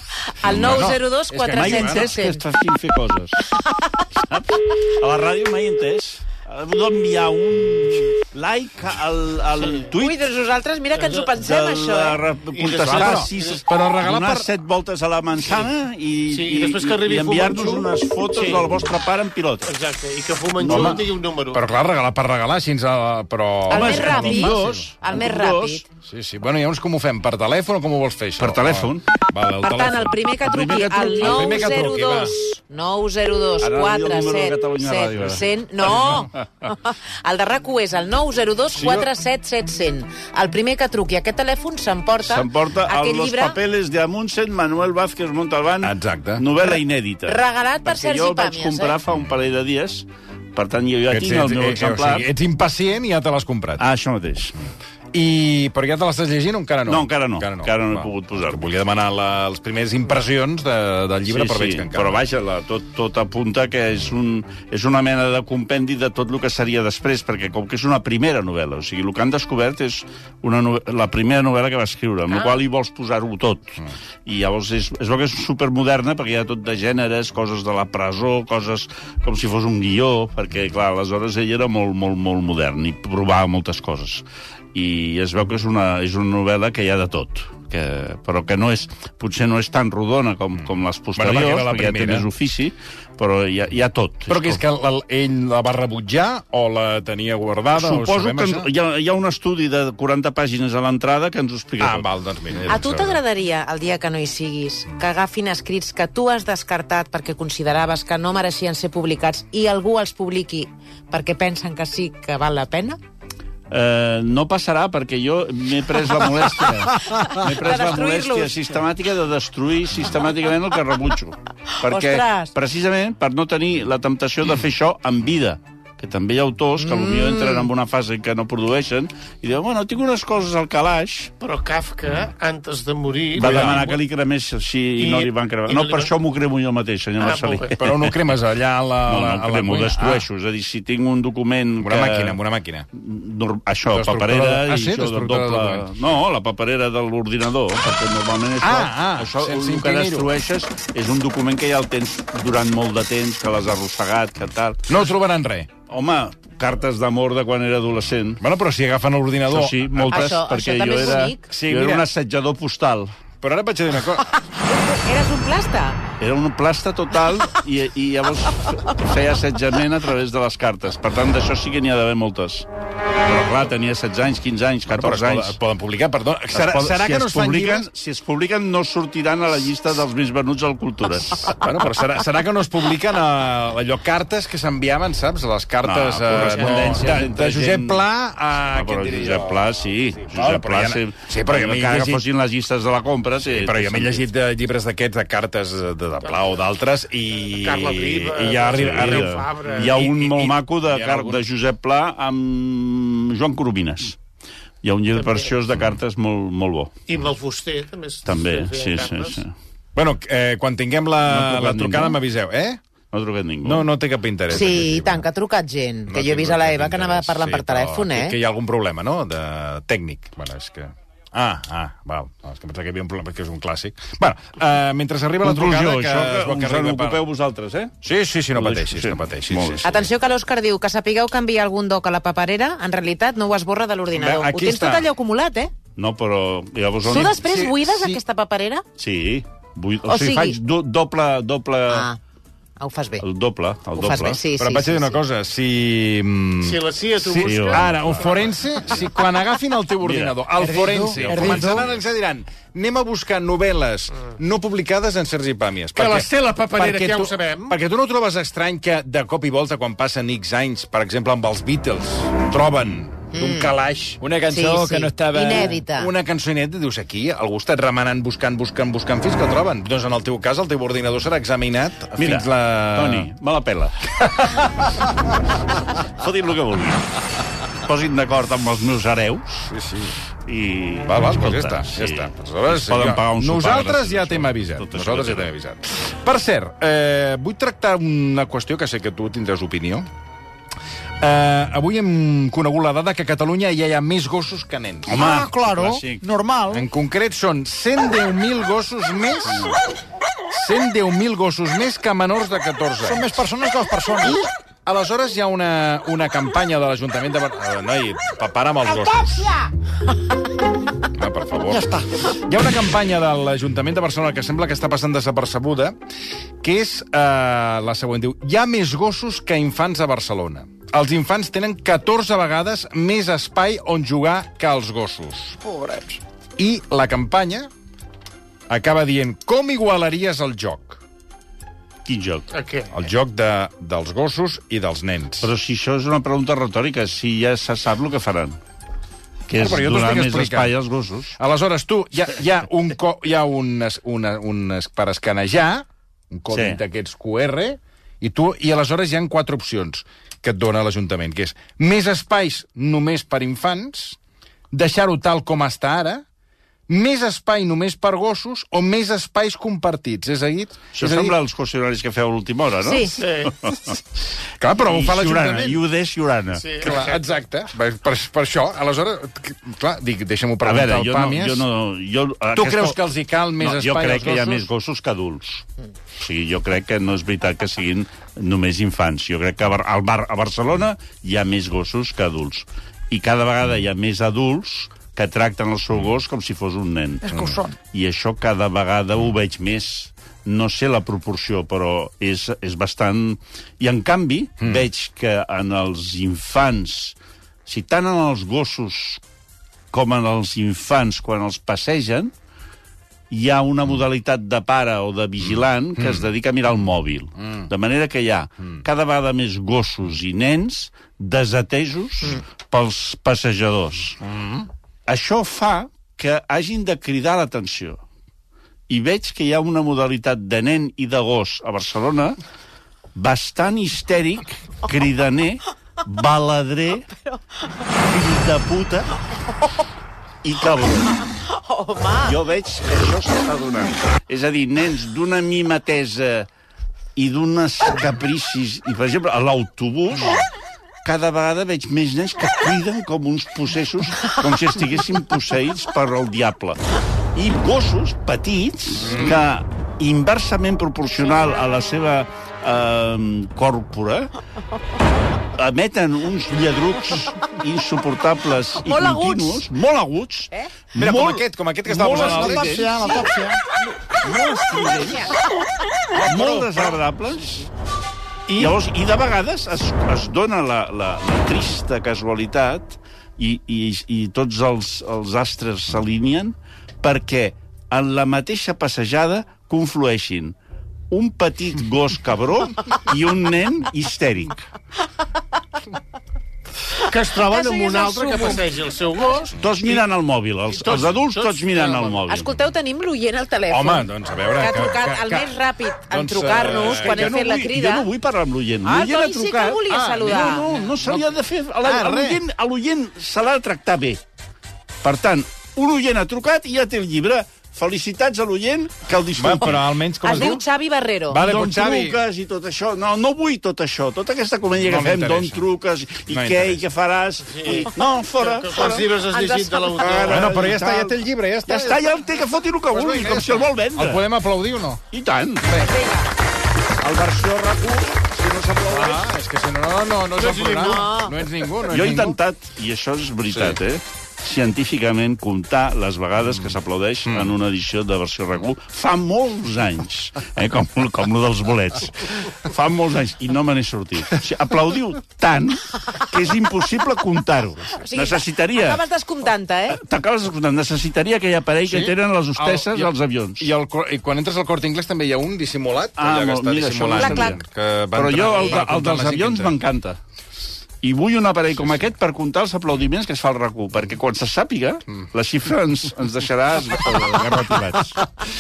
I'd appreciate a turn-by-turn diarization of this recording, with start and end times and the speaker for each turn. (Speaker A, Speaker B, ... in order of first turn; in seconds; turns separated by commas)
Speaker A: 0.3-2.4, Speaker B: 0.4-2.2, Speaker C: 0.5-1.0, Speaker C: 1.5-3.4, Speaker A: 3.5-4.0, Speaker C: 4.2-10.1, Speaker A: 9.9-12.2, Speaker D: 11.0-11.3, Speaker C: 11.3-19.7, Speaker D: 12.5-13.6, Speaker B: 12.7-14.5, Speaker D: 16.3-18.8, Speaker D: 19.6-21.6, Speaker C: 20.6-21.0, Speaker B: 20.6-24.8, Speaker C: 23.7-25.8, Speaker A: 23.7-25.8, Speaker B: 26.0-30.2, Speaker C: 28.4-29.0, Speaker A: 29.6-43.6, Speaker C: 30.4-31.6, Speaker B: 31.2-32.3, Speaker C: 33.6-35.4, Speaker B: 38.7-39.1, Speaker C: 42.2-52.2, Speaker B: 45.8-46.5, Speaker A: 46.6-49.0, Speaker B: 51.1-53.8, Speaker C: 53.8-54.5, Speaker B: 55.1-62.2, Speaker C: 56.9-58.6, Speaker C: 61.3-94.6, Speaker B: 91.2-92.3, Speaker B: 94.3-98.7, Speaker C: 97.7-102.1, Speaker B: 101.8-103.1, Speaker C: 102.6-103.1, Speaker A: 102.6-113.0, Speaker C: 113.7-131.3, Speaker A: 117.1-118.5, Speaker A: 121.7-122.5, Speaker A: 126.8-127.7, Speaker D: 131.4-134.0, Speaker C: 133.3-138.1, Speaker B: 133.4-133.9, Speaker D: 135.0-136.1, Speaker D: 137.2-137.7, Speaker B: 137.7-140.2, Speaker C: 139.1-142.4, Speaker B: 141.8-142.9, Speaker C: 142.9-154.9, Speaker B: 143.9-146.0, Speaker B: 148.6-150.3, Speaker B: 154.9-155.7, Speaker C: 155.9-158.4, Speaker B: 158.4-160.4, Speaker C: 159.5-163.1, Speaker A: 160.1-161.4, Speaker B: 161.4-162.1, Speaker B: 163.4-164.4, Speaker A: 164.7-166.0, Speaker C: 166.2-172.7, Speaker C: 173.2-175.6, Speaker B: 174.9-177.9, Speaker C: 176.5-181.6, Speaker B: 181.4-189.7, Speaker C: 185.8-188.0, Speaker C: 188.7-194.2, Speaker B: 190.2-192.2, Speaker B: 193.5-201.4, Speaker D: 197.6-200.2, Speaker C: 198.4-204.2, Speaker C: 204.8-206.9, Speaker D: 205.1-205.5, Speaker D: 207.1-209.4, Speaker C: 208.2-209.5, Speaker B: 209.9-212.8, Speaker C: 211.2-212.2, Speaker C: 213.1-213.9, Speaker B: 213.6-215.2, Speaker A: 214.5-218.3, Speaker B: 216.1-227.2, Speaker C: 225.4-227.9, Speaker B: 228.0-230.1, Speaker C: 228.6-229.9, Speaker A: 229.8-235.7, Speaker B: 234.1-235.1, Speaker C: 235.9-237.4, Speaker A: 237.0-238.8, Speaker B: 237.1-238.2, Speaker C: 239.0-242.1, Speaker A: 240.1-240.6, Speaker A: 241.9-242.2, Speaker A: 242.8-243.2, Speaker C: 243.2-244.4, Speaker A: 243.9-245.2, Speaker B: 244.6-273.3, Speaker D: 246.6-248.5, Speaker C: 247.3-248.2, Speaker C: 250.0-250.4, Speaker E: 250.6-251.8, Speaker C: 251.0-252.0, Speaker D: 255.9-257.7, Speaker A: 263.3-263.7, Speaker A: 264.5-266.1, Speaker C: 272.2-273.9, Speaker B: 274.1-275.0, Speaker C: 276.0-279.7, Speaker B: 279.7-280.2, Speaker C: 280.4-285.5, Speaker B: 281.0-290.1, Speaker B: 291.2-295.3, Speaker C: 295.1-296.2, Speaker E: 295.1-296.9, Speaker B: 296.7-299.7, Speaker C: 299.5-299.8, Speaker B: 300.5-303.4, Speaker E: 303.0-304.5, Speaker B: 304.9-309.5, Speaker E: 309.3-309.6, Speaker B: 311.1-315.9, Speaker E: 311.7-312.1, Speaker B: 316.6-325.6, Speaker E: 325.6-326.2, Speaker B: 326.6-327.7, Speaker B: 328.7-331.0, Speaker C: 332.1-332.5, Speaker D: 332.5-332.9, Speaker B: 332.9-335.5, Speaker C: 335.4-338.6, Speaker C: 339.5-341.3, Speaker B: 339.6-340.7, Speaker B: 341.4-354.2, Speaker C: 346.5-346.8, Speaker B: 354.7-356.2, Speaker B: 356.9-361.4, Speaker C: 360.9-364.0, Speaker A: 362.8-363.2, Speaker D: 363.2-363.5, Speaker B: 364.6-365.8, Speaker C: 364.8-366.9, Speaker D: 366.6-367.2, Speaker B: 366.8-371.6, Speaker C: 370.6-373.0, Speaker B: 372.5-374.7, Speaker C: 373.6-375.6, Speaker C: 376.2-399.2, Speaker E: 387.2-387.7, Speaker B: 394.6-394.9, Speaker C: 399.9-402.3, Speaker C: 403.3-414.2, Speaker B: 406.0-406.3, Speaker B: 414.2-414.7, Speaker C: 415.1-418.0, Speaker C: 418.9-422.4, Speaker C: 423.1-427.1, Speaker C: 428.1-429.1, Speaker C: 430.4-431.2, Speaker A: 431.3-432.3, Speaker C: 432.2-436.5, Speaker C: 437.1-440.4, Speaker C: 441.0-446.8, Speaker C: 447.3-454.3, Speaker B: 449.0-449.3, Speaker C: 455.5-463.1, Speaker A: 458.8-459.6, Speaker B: 461.0-463.0, Speaker E: 462.1-463.6, Speaker C: 464.2-465.4, Speaker B: 466.1-467.0, Speaker C: 466.2-467.7, Speaker D: 468.5-468.8, Speaker C: 468.5-480.5, Speaker C: 481.1-484.6, Speaker D: 487.1-490.0, Speaker A: 487.4-488.6, Speaker C: 489.6-492.5, Speaker D: 490.7-492.2, Speaker A: 492.3-498.1, Speaker B: 493.7-497.4, Speaker C: 496.6-504.2, Speaker A: 498.8-500.7, Speaker B: 499.9-500.3, Speaker B: 501.8-502.4, Speaker C: 505.0-509.9, Speaker B: 509.4-510.6, Speaker A: 510.2-511.4, Speaker B: 511.3-512.2, Speaker C: 511.3-519.1, Speaker B: 514.8-515.6, Speaker B: 516.3-516.8, Speaker D: 517.5-520.7, Speaker A: 519.3-520.3, Speaker C: 520.0-524.2, Speaker B: 520.2-522.1, Speaker B: 522.9-525.0, Speaker C: 525.1-525.6, Speaker B: 525.6-526.0, Speaker A: 525.8-526.3, Speaker B: 527.0-532.4, Speaker D: 528.9-529.2, Speaker D: 530.4-531.1, Speaker A: 530.8-531.3, Speaker C: 531.9-549.0, Speaker B: 533.5-533.8, Speaker B: 537.3-537.5, Speaker A: 547.9-550.0, Speaker C: 549.9-553.7, Speaker B: 551.9-559.7, Speaker C: 556.2-557.6, Speaker A: 557.1-557.6, Speaker C: 558.1-560.2, Speaker C: 561.0-568.2